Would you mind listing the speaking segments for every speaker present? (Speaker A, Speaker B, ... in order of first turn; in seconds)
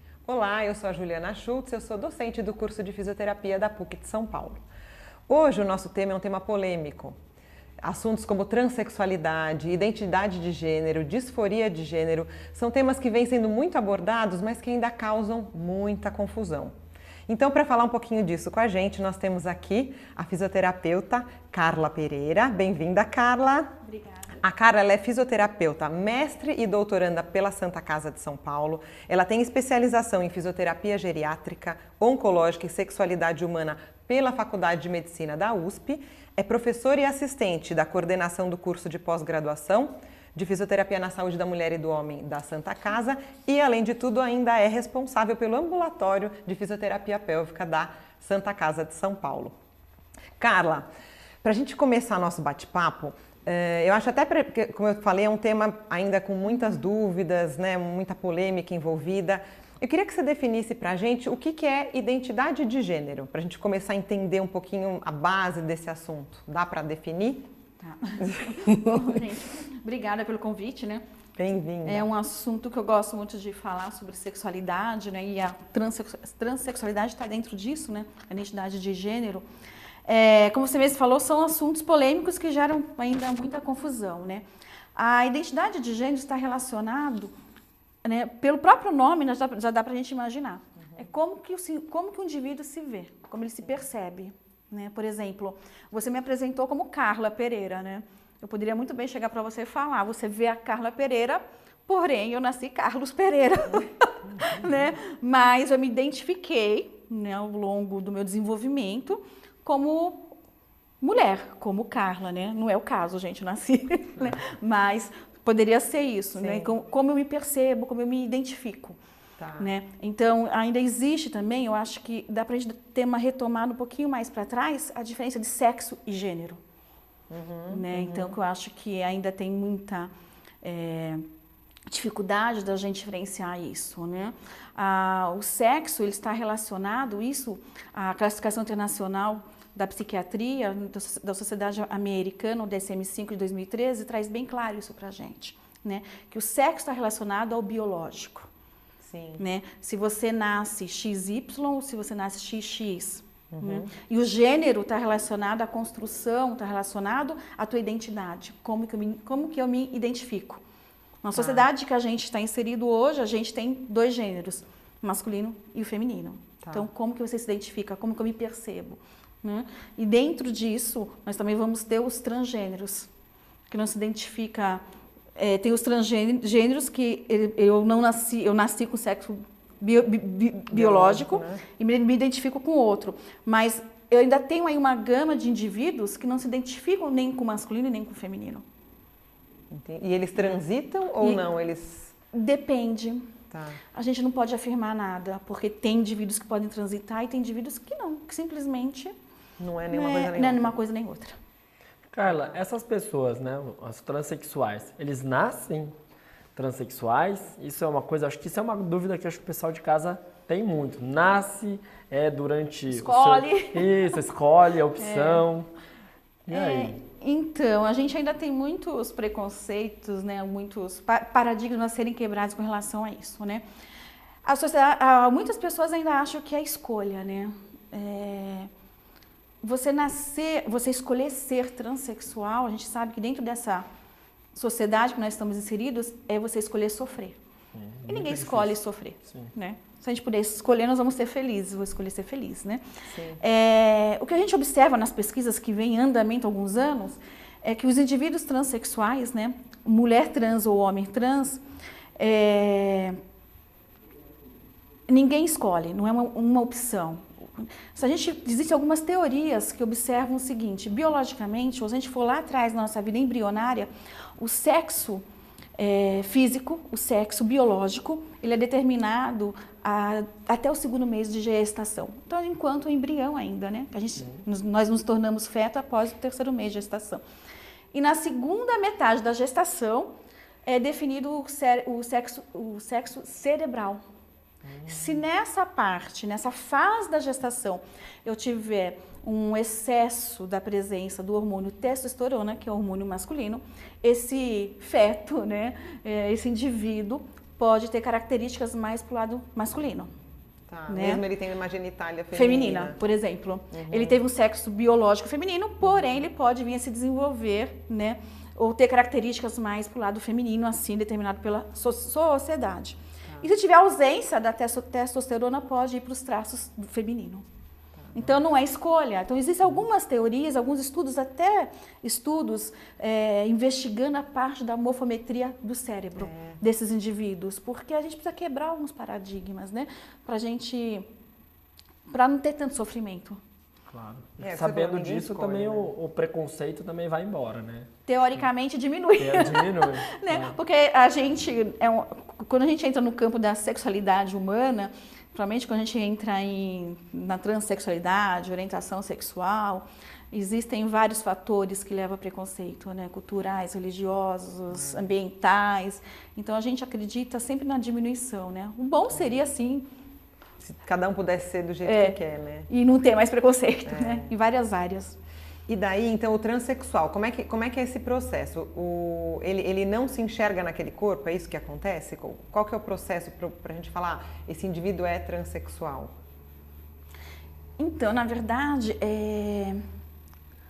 Speaker A: 0.2-4.6, 5.3-7.2, 7.8-16.7, 17.3-23.7, 24.4-49.5, 50.4-50.9, 51.4-67.5, 68.2-69.3, 71.4-72.1, 103.7-104.7, 116.4-116.7, 119.4-119.7, 127.3-128.4, 149.0-149.4, 153.5-153.9, 161.3-161.7, 166.6-166.9, 180.7-181.6, 189.7-192.2, 193.5-193.8, 199.6-200.7, 202.2-202.6, 243.1-243.4, 284.7-285.1, 300.7-303.0, 303.7-304.2, 318.0-318.4, 326.2-326.6, 334.4-335.9, 354.7-355.1, 360.6-362.7, 363.9-364.3, 365.7-376.1
Speaker B: 23.9-24.4, 67.8-71.0, 71.8-79.5, 80.1-84.4, 85.0-87.3, 88.0-110.3, 111.0-119.0, 119.6-126.6, 127.7-130.1, 130.6-131.3, 131.9-148.5, 149.4-160.6, 161.2-173.1, 173.7-174.8, 175.4-188.6, 192.3-193.3, 193.9-199.1, 199.9-201.4, 212.9-214.1, 215.0-215.4, 216.5-223.6, 224.4-228.7, 229.6-233.8, 234.6-237.4, 238.1-242.8, 243.4-251.6, 252.2-253.2, 255.1-265.2, 265.8-277.2, 277.9-280.1, 280.7-284.0, 284.9-300.1, 300.9-301.2, 302.3-317.4, 318.1-331.1, 332.1-333.4, 338.1-359.9, 361.9-362.2, 362.7-365.2, 377.8-379.8
Speaker C: 202.1-205.9, 206.6-215.7, 216.5-217.0, 237.7-239.5, 333.9-337.9, 339.2-340.6